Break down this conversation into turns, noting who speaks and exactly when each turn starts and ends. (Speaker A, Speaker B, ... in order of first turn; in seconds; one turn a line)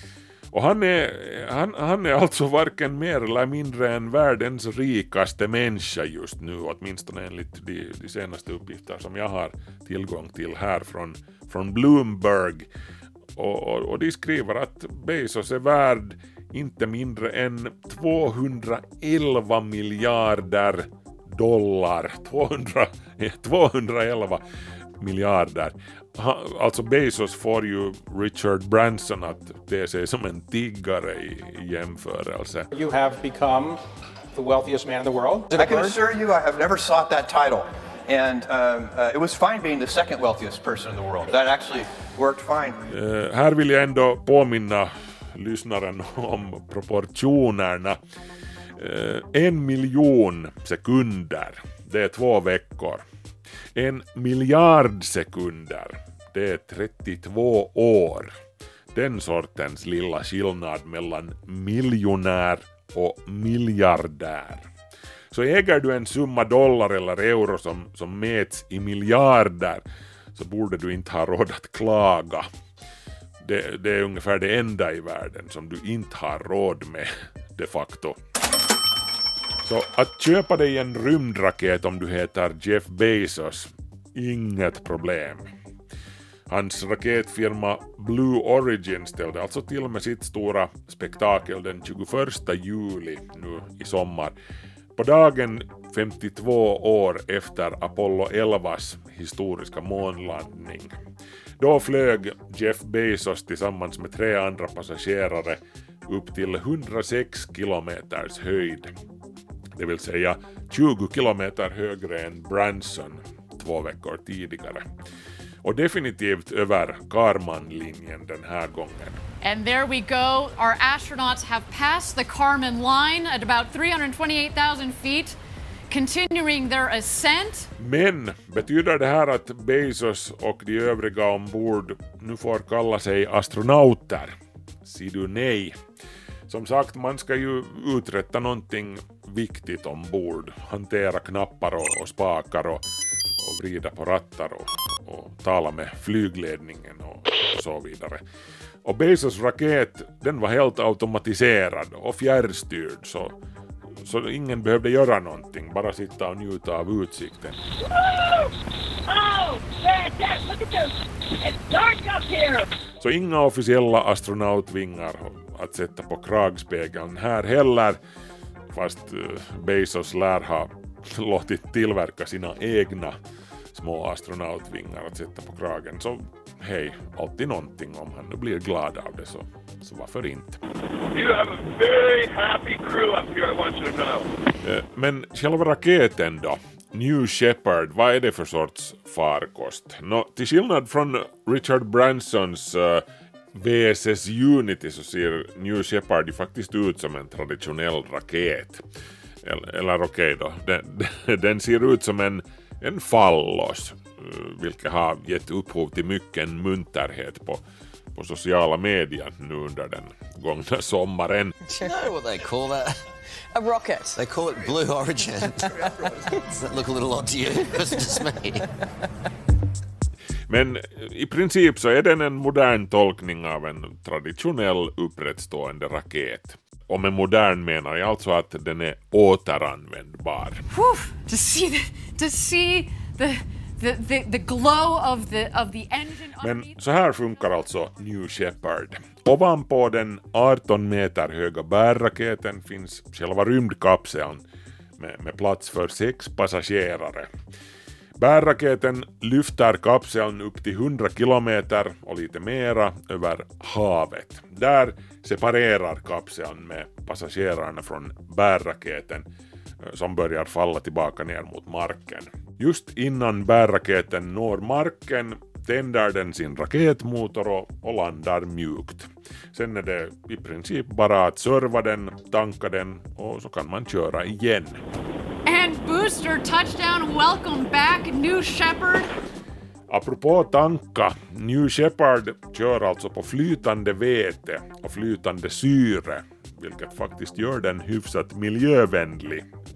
Speaker A: 0.5-12.7
Speaker A: 13.3-24.4
Speaker A: 25.0-32.7
Speaker B: 32.7-33.8
Speaker B: 34.3-35.9
Speaker C: 35.5-42.9
Speaker A: 42.9-48.0
Speaker A: 48.8-53.0
Speaker A: 53.7-58.3
Speaker A: 58.9-64.7
Speaker A: 65.3-72.5
Speaker A: 73.4-78.2
Speaker A: 79.6-85.5
Speaker A: 86.5-94.3
Speaker A: 95.0-100.9
Speaker A: 101.6-108.9
Speaker A: 109.7-114.9
Speaker A: 115.6-119.2
Speaker D: 119.4-125.4
Speaker D: 125.9-127.7
Speaker A: 127.8-135.8
Speaker A: 136.5-142.8
Speaker A: 143.4-148.2
Speaker A: 148.8-153.4
Speaker A: 153.9-157.6
Speaker A: 163.0-168.0
Speaker A: 168.7-173.2
Speaker A: 173.7-180.6
Speaker E: 181.1-184.3
Speaker A: 184.6-198.8
Speaker A: 199.4-207.6
Speaker A: 208.1-211.5
Speaker F: 211.6-218.7
Speaker A: 220.5-230.6
Speaker D: 230.7-236.7
Speaker A: 236.4-244.4
Speaker A: 245.0-247.3
Speaker A: 248.2-259.3
Speaker A: 259.8-274.8
Speaker D: 275.4-279.1
Speaker A: 279.9-289.4